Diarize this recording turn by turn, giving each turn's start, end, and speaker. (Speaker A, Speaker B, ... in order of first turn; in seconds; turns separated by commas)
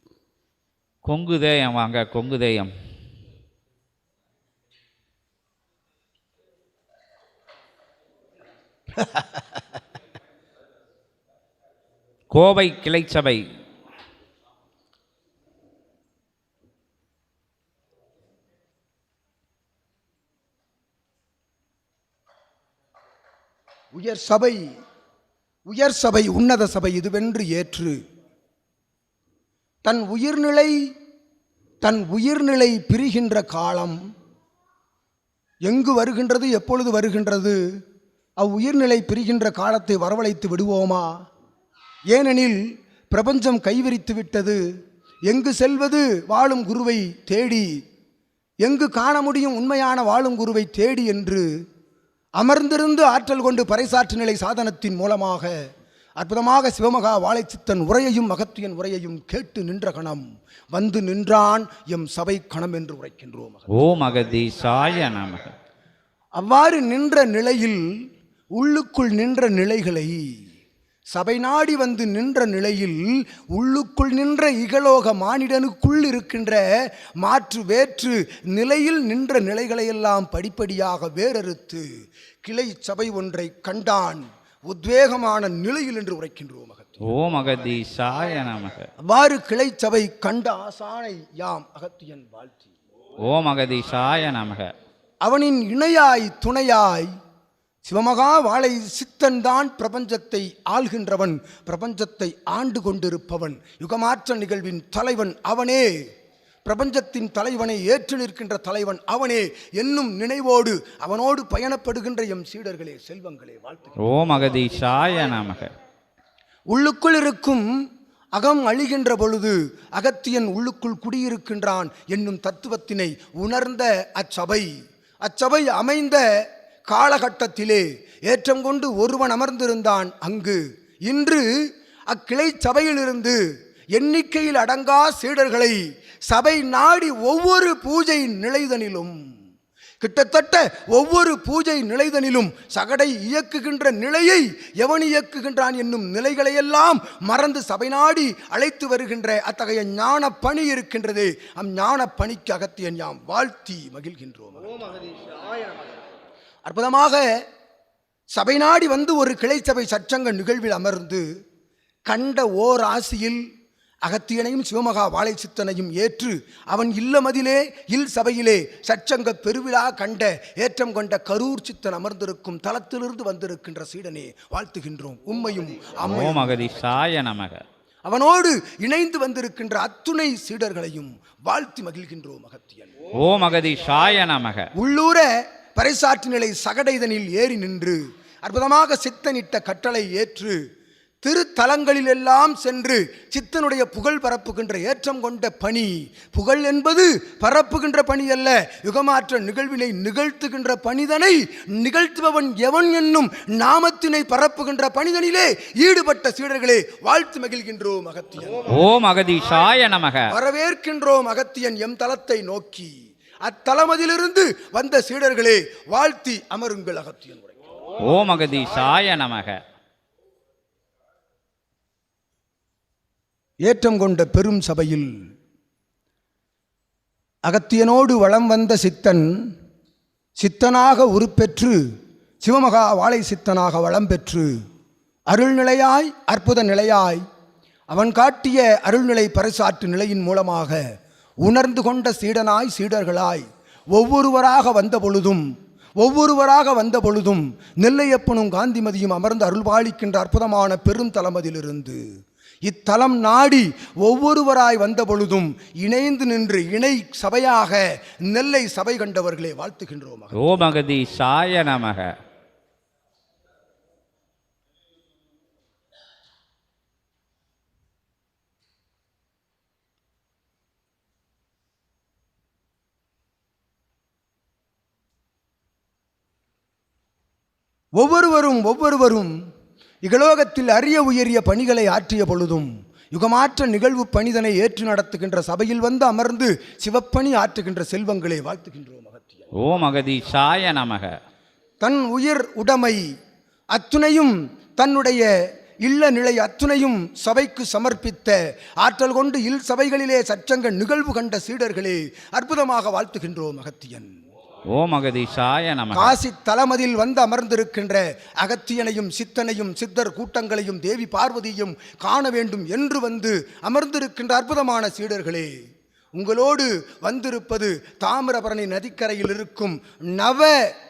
Speaker A: 1.0-2.7, Speaker A: 12.3-13.4, Speaker B: 23.9-24.6, Speaker B: 25.7-28.0, Speaker B: 29.8-30.7, Speaker B: 31.8-34.0, Speaker B: 35.7-37.6, Speaker B: 38.4-41.1, Speaker B: 42.1-42.6, Speaker B: 43.1-44.6, Speaker B: 45.3-47.6, Speaker B: 48.6-51.4, Speaker B: 52.4-55.5, Speaker B: 56.2-63.7, Speaker A: 63.7-65.5, Speaker B: 66.4-67.8, Speaker B: 68.5-70.2, Speaker B: 71.1-76.6, Speaker B: 77.2-81.8, Speaker B: 82.4-87.1, Speaker A: 87.0-88.9, Speaker B: 89.1-92.7, Speaker A: 93.2-94.7, Speaker B: 95.2-97.1, Speaker B: 97.8-105.9, Speaker B: 106.6-114.0, Speaker A: 114.0-115.7, Speaker B: 116.7-117.6, Speaker B: 118.3-124.7, Speaker B: 125.2-126.2, Speaker B: 126.9-131.4, Speaker B: 132.1-133.4, Speaker B: 133.9-135.8, Speaker B: 136.3-139.2, Speaker B: 140.0-154.8, Speaker B: 156.6-157.2, Speaker B: 158.3-161.2, Speaker B: 162.1-163.4, Speaker B: 164.1-176.8, Speaker A: 176.0-177.6, Speaker B: 178.0-182.9, Speaker A: 183.2-184.7, Speaker B: 184.8-190.6, Speaker B: 191.2-208.7, Speaker A: 208.7-210.3, Speaker B: 210.3-212.9, Speaker B: 213.4-217.6, Speaker A: 218.0-219.6, Speaker B: 223.6-225.1, Speaker B: 227.5-229.3, Speaker B: 230.4-231.8, Speaker B: 232.4-234.5, Speaker B: 235.3-237.2, Speaker B: 237.9-240.8, Speaker B: 241.4-245.4, Speaker B: 246.0-252.0, Speaker B: 252.7-260.4, Speaker A: 260.3-262.1, Speaker B: 278.0-279.3, Speaker B: 280.0-289.5, Speaker A: 289.6-291.1, Speaker B: 291.8-293.0, Speaker B: 293.7-295.3, Speaker B: 295.8-304.1, Speaker A: 304.7-306.2, Speaker B: 305.9-315.5, Speaker B: 316.1-320.6